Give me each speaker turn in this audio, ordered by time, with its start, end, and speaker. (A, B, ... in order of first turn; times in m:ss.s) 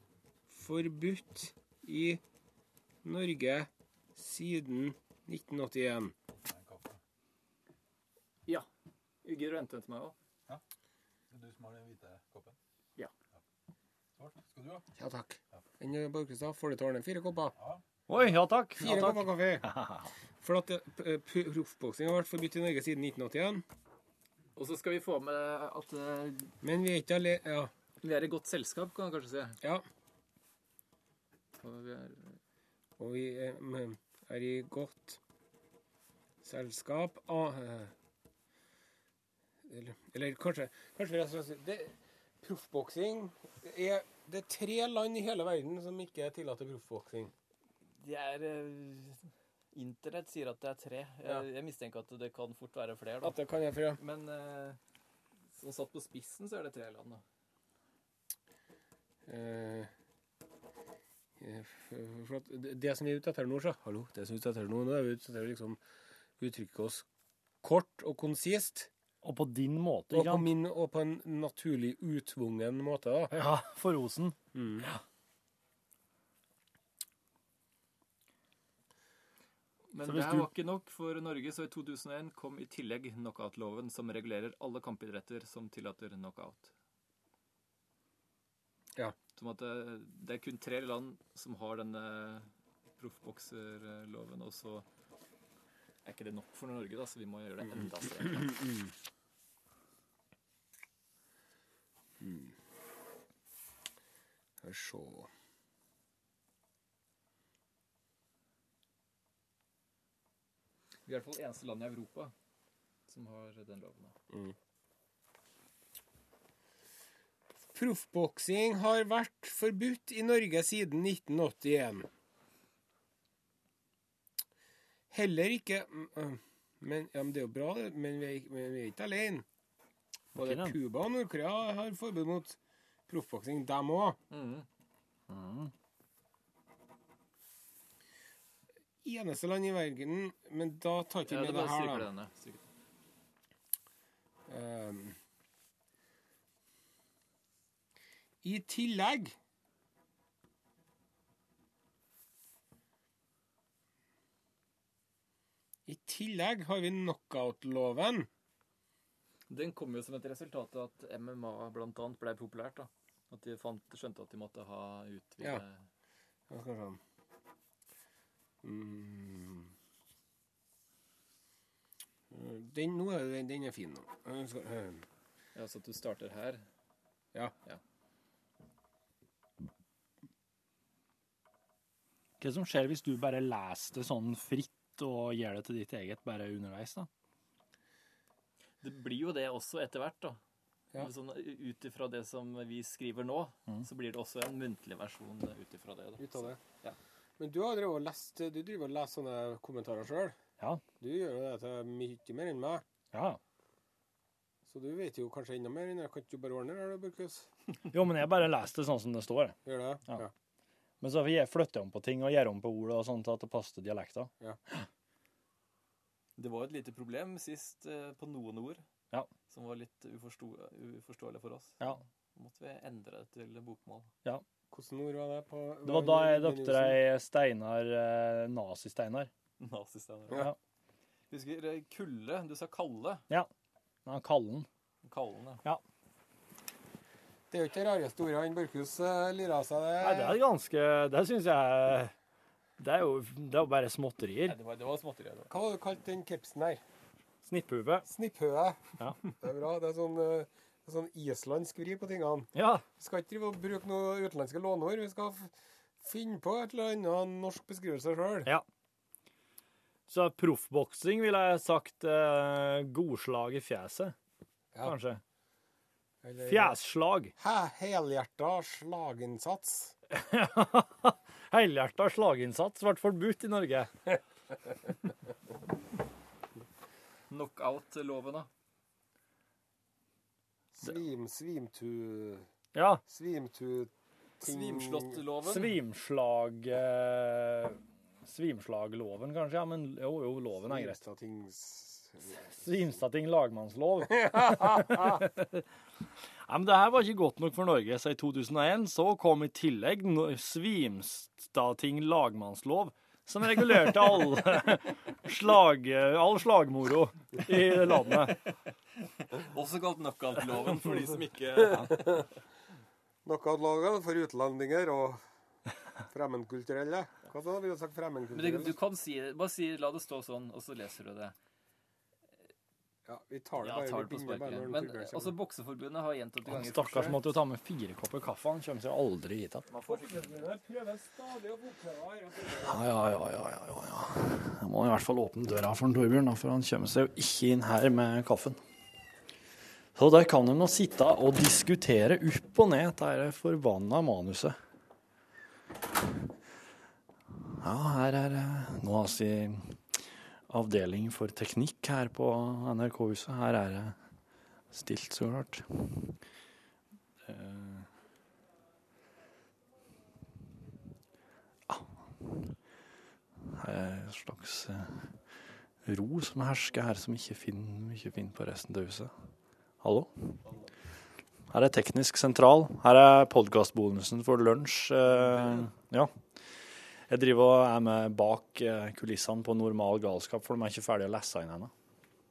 0:00.5-0:02.2 A
0:03.0-0:06.1 A
0:06.4-0:07.0 B
0:09.2-0:10.2 C
0:11.3-0:12.6 B
0:14.2-0:14.8 B
0:15.0-0:17.5 A
0:18.1-0:20.0 D
0:18.8-0:19.7 A
0:20.4-0:23.6 A
0:24.6-0:26.5 C
0:26.6-0:27.7 A
0:28.0-0:29.6 C
0:31.6-0:32.4 C
0:33.0-0:35.2 A
0:36.4-0:37.9 A
0:39.7-0:47.3 A
0:48.0-0:53.4 C
0:53.2-0:54.0 A
0:54.0-0:54.8 C
0:55.5-0:57.2 C
0:59.3-0:59.9 A
1:01.4-1:05.8 A
1:06.4-1:07.0 A
1:07.6-1:08.9 A
1:09.2-1:10.5 D
1:10.1-1:13.4 A
1:13.3-1:15.0 D
1:14.5-1:14.9 A
1:19.9-1:26.7 C
1:20.0-1:20.5 D
1:29.4-1:34.9 C
1:36.0-1:38.6 C
1:42.2-1:42.5 A
1:44.6-1:45.3 A
1:51.1-1:52.3 C
1:53.1-1:54.2 C
1:57.7-2:02.1 A
2:05.1-2:09.5 A
2:10.4-2:10.8 D
2:10.4-2:12.6 A
2:13.1-2:14.2 A
2:14.3-2:14.7 C
2:15.3-2:15.7 D
2:19.0-2:22.1 A
2:21.3-2:22.6 C
2:24.5-2:25.2 A
2:28.4-2:29.4 A
2:35.9-2:38.3 A
2:39.5-2:45.8 C
2:46.5-2:47.0 A
2:48.6-2:49.7 A
2:52.3-2:55.0 A
2:55.6-2:56.7 C
3:02.4-3:07.1 D
3:08.8-3:10.4 C
3:11.0-3:17.0 C
3:16.2-3:16.6 A
3:17.4-3:20.4 A
3:21.0-3:22.8 A
3:23.1-3:23.4 D
3:24.7-3:27.5 A
3:27.9-3:30.3 D
3:29.6-3:30.3 A
3:31.0-3:34.3 D
3:36.4-3:38.8 C
3:39.5-3:44.1 C
3:44.7-3:47.0 A
3:45.8-3:49.3 D
3:49.6-3:50.5 C
3:50.3-3:50.6 D
3:51.3-3:53.2 C
3:54.0-3:54.7 D
3:55.0-3:55.6 C
3:57.5-4:00.4 A
4:00.0-4:02.1 D
4:02.8-4:04.6 D
4:04.5-4:05.5 C
4:05.5-4:06.8 A
4:07.4-4:08.1 D
4:08.1-4:08.8 A
4:09.4-4:15.5 A
4:12.5-4:12.8 D
4:16.0-4:18.5 A
4:20.1-4:24.2 D
4:24.8-4:25.2 D
4:26.2-4:26.8 A
4:26.4-4:27.3 D
4:27.4-4:30.0 A
4:30.1-4:34.0 D
4:37.3-4:38.5 C
4:40.8-4:42.5 A
4:42.7-4:43.0 D
4:43.1-4:45.2 A
4:44.4-4:45.7 C
4:45.4-4:51.0 D
4:50.6-4:52.7 A
4:52.5-4:55.6 D
4:54.2-4:55.2 A
4:56.4-5:08.4 D
5:09.3-5:12.1 C
5:13.2-5:15.2 A
5:16.1-5:18.8 A
5:18.3-5:21.4 C
5:23.1-5:25.4 A
5:23.6-5:27.3 C
5:26.4-5:29.7 D
5:29.7-5:30.5 C
5:29.8-5:32.8 A
5:32.6-5:38.6 D
5:40.0-5:44.6 D
5:47.5-5:54.0 D
5:54.7-5:56.2 D
5:57.2-5:57.9 D
6:01.7-6:02.5 D
6:03.5-6:05.1 D
6:05.8-6:09.1 D
6:09.8-6:10.4 D
6:11.5-6:16.2 D
6:17.1-6:21.7 D